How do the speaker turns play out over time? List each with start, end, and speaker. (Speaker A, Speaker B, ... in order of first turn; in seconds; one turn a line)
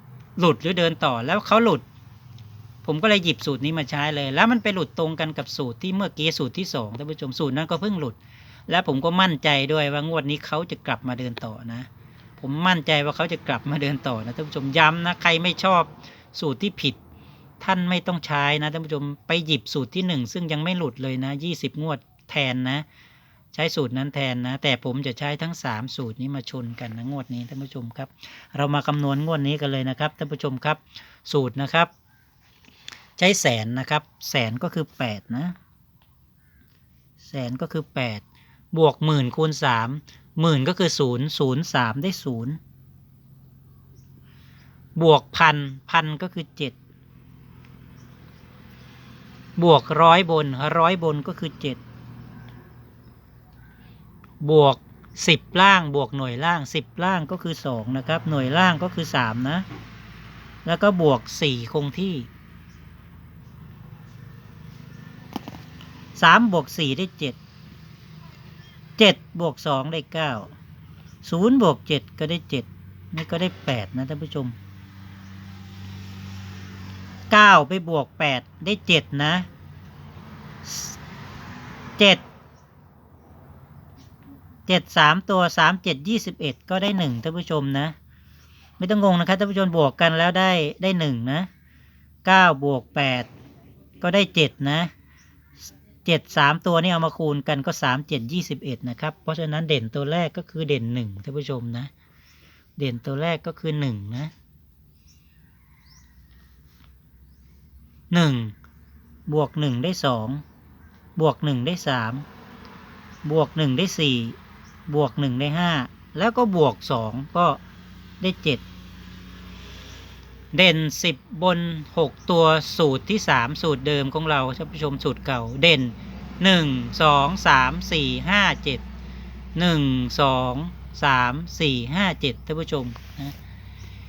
Speaker A: 0.4-1.8
Speaker A: 2.8-8.2
Speaker A: 8.7-11.9
Speaker A: 12.4-17.0
Speaker A: 17.6-22.8
Speaker A: 23.5-31.9
Speaker A: 33.2-35.5
Speaker A: 37.2-42.6
Speaker A: 44.9-46.8
Speaker A: 49.5-51.8
Speaker A: 54.4-59.6
Speaker A: 60.6-62.3
Speaker A: 66.2-67.4
Speaker A: 69.0-70.5
Speaker A: 71.2-74.5
Speaker A: 77.3-79.5
Speaker A: 80.6-81.0
Speaker A: 82.0-82.2
Speaker A: 84.7-88.0
Speaker A: 88.8-91.5
Speaker A: 92.2-93.3
Speaker A: 94.0-94.9
Speaker A: 96.0-101.9
Speaker A: 102.8-104.3
Speaker A: 108.1-108.5
Speaker A: 109.3-110.4
Speaker A: 111.2-112.2
Speaker A: 113.2-114.3
Speaker A: 114.9-117.6
Speaker A: 118.2-118.6
Speaker A: 120.5-128.8
Speaker A: 129.5-133.3